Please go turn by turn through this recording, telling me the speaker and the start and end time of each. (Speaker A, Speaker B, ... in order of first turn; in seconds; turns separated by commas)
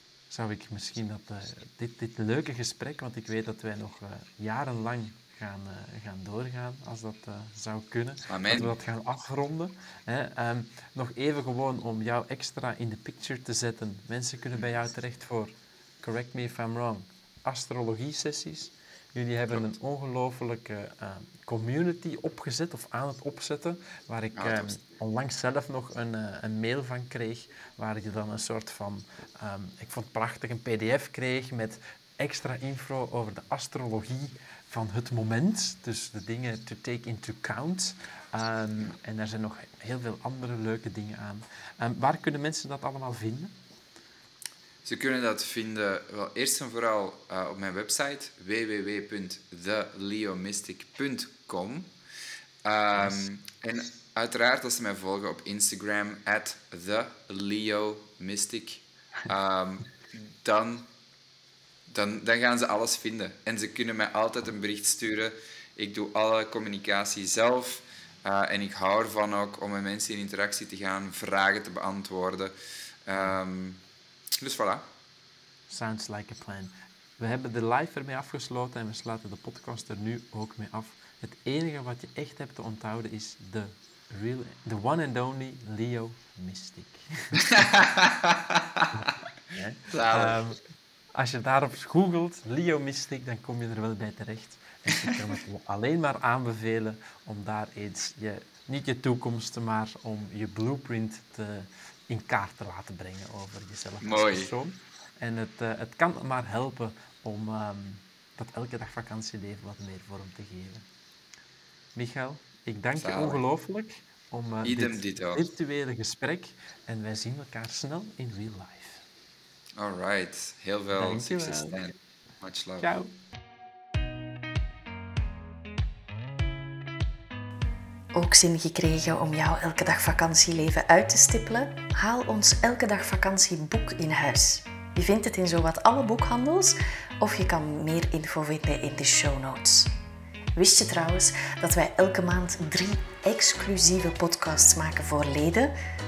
Speaker A: 0.3-43.5, Speaker B: 8.3-8.8, Speaker B: 24.3-24.8, Speaker B: 44.8-51.9, Speaker B: 52.6-60.9, Speaker B: 61.9-72.5, Speaker B: 73.1-73.8, Speaker B: 74.4-74.8, Speaker A: 75.7-87.7, Speaker B: 87.5-88.9, Speaker A: 88.9-90.6, Speaker B: 89.9-90.4, Speaker A: 91.1-110.8, Speaker B: 104.0-104.5, Speaker A: 112.0-119.0, Speaker B: 113.0-113.4, Speaker B: 114.6-115.4, Speaker B: 119.8-122.9, Speaker A: 121.0-121.9, Speaker A: 122.8-123.1, Speaker C: 128.1-139.9, Speaker C: 140.6-145.8